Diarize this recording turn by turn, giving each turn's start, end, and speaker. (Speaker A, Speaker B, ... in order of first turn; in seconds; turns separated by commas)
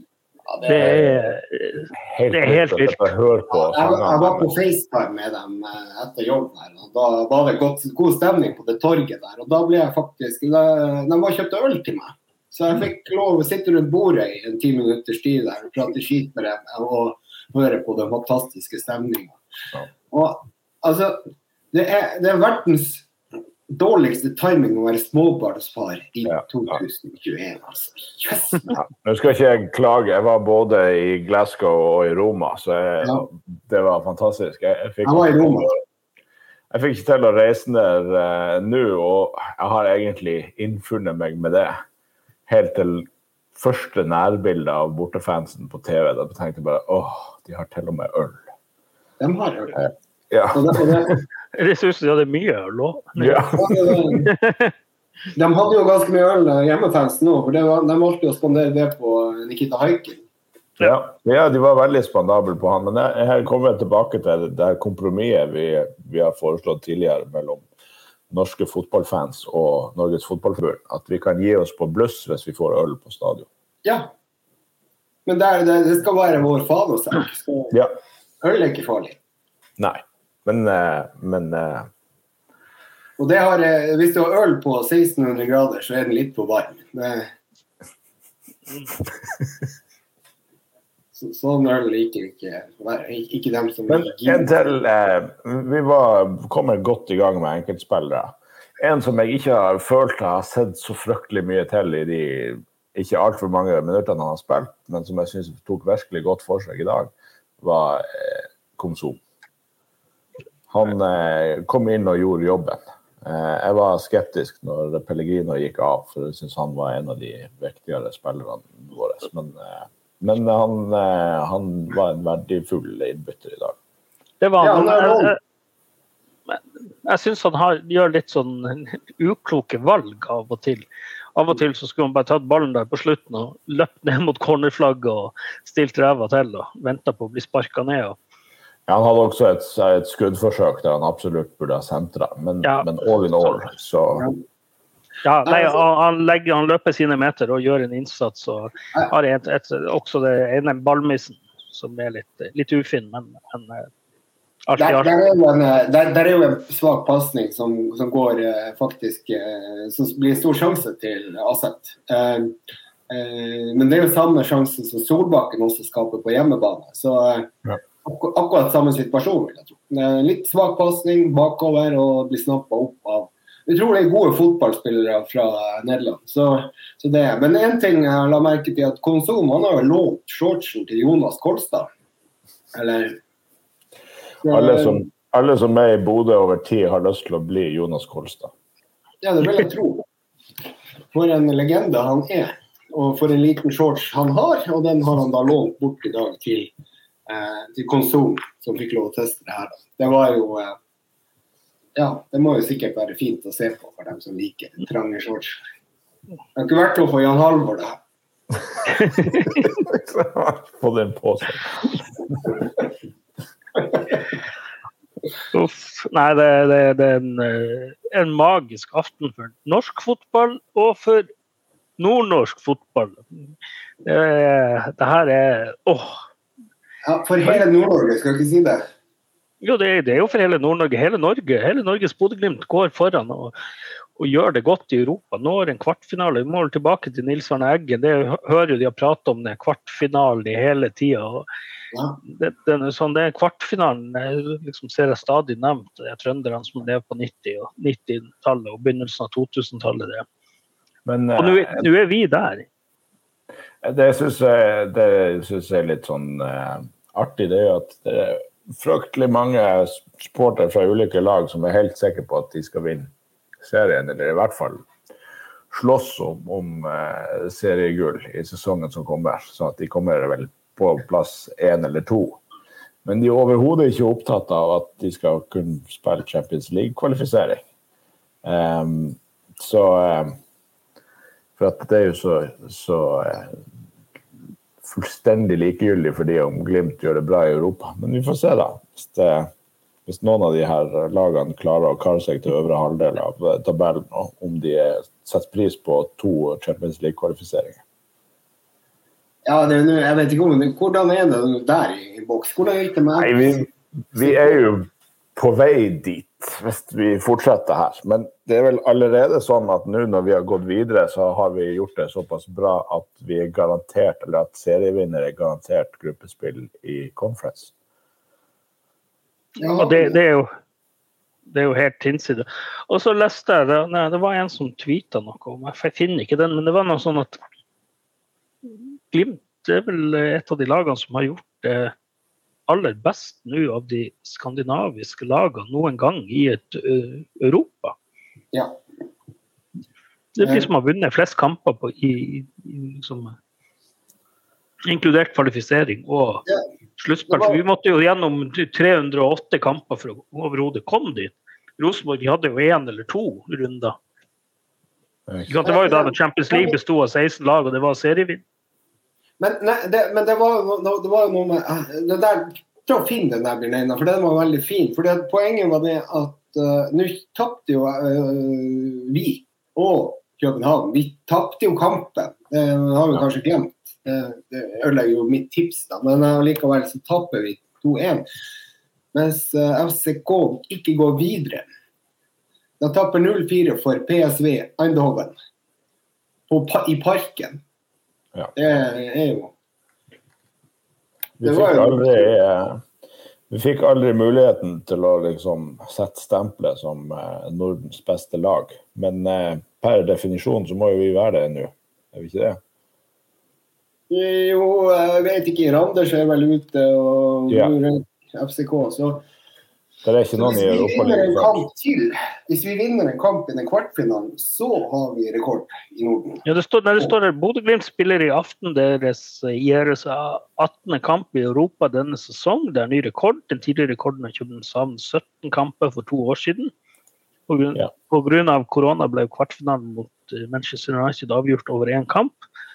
Speaker A: 0.5-1.1, Speaker B: 0.6-3.1, Speaker C: 2.0-4.5, Speaker A: 3.5-19.4, Speaker A: 20.1-23.1, Speaker A: 23.7-28.8, Speaker C: 28.7-35.8, Speaker A: 35.0-35.7, Speaker C: 36.7-41.8, Speaker C: 42.5-48.5, Speaker A: 49.2-49.9, Speaker C: 49.8-51.2, Speaker A: 50.5-51.2, Speaker B: 51.5-53.4, Speaker C: 53.2-54.3, Speaker A: 53.6-54.3, Speaker B: 54.2-54.7, Speaker A: 55.4-60.2, Speaker C: 60.8-67.7, Speaker C: 68.3-73.5, Speaker A: 73.8-74.1, Speaker A: 75.3-77.8, Speaker A: 78.4-79.2, Speaker C: 79.8-81.9, Speaker A: 83.2-87.3, Speaker A: 91.1-94.6, Speaker C: 93.9-109.2, Speaker C: 110.7-123.8, Speaker B: 124.4-125.4, Speaker A: 124.6-125.3, Speaker B: 126.5-138.2, Speaker C: 138.9-144.3, Speaker B: 142.6-143.6, Speaker B: 145.2-153.9, Speaker A: 145.5-145.8, Speaker B: 154.7-155.2, Speaker A: 154.8-162.6, Speaker A: 163.1-167.5, Speaker A: 168.0-181.9, Speaker A: 182.7-183.2, Speaker A: 184.4-185.0, Speaker C: 184.5-188.5, Speaker A: 189.2-190.1, Speaker A: 191.1-196.7, Speaker A: 197.3-200.8, Speaker A: 202.0-205.6, Speaker A: 206.6-208.0, Speaker B: 209.1-209.5, Speaker C: 209.6-212.5, Speaker B: 215.5-221.3, Speaker B: 222.0-223.2, Speaker B: 224.1-226.2, Speaker A: 227.1-228.9, Speaker B: 229.6-233.5, Speaker B: 234.2-241.5, Speaker A: 241.9-242.2, Speaker B: 242.3-250.3, Speaker C: 251.1-251.9, Speaker B: 251.4-252.7, Speaker C: 253.8-264.9, Speaker C: 265.7-272.4, Speaker C: 273.1-277.6, Speaker C: 278.4-280.4, Speaker C: 281.6-283.7, Speaker C: 284.8-289.5, Speaker C: 290.1-297.8, Speaker A: 299.5-304.6, Speaker C: 303.2-317.7, Speaker A: 319.6-320.2, Speaker B: 319.8-320.5, Speaker B: 321.5-327.4, Speaker B: 329.1-331.9, Speaker B: 332.7-337.9, Speaker B: 340.4-343.4, Speaker A: 340.4-340.7, Speaker B: 344.9-346.4, Speaker B: 347.0-354.0, Speaker A: 347.3-347.6, Speaker C: 355.3-355.6, Speaker B: 355.5-358.4, Speaker A: 355.6-356.8, Speaker A: 359.4-378.2, Speaker A: 379.1-381.6, Speaker A: 382.8-385.3, Speaker A: 386.5-387.6, Speaker A: 388.6-389.5, Speaker C: 391.4-392.8, Speaker A: 391.4-392.3, Speaker C: 393.5-402.6, Speaker A: 404.1-409.2, Speaker C: 410.0-411.7, Speaker A: 410.4-416.4, Speaker B: 416.5-426.7, Speaker B: 427.5-432.4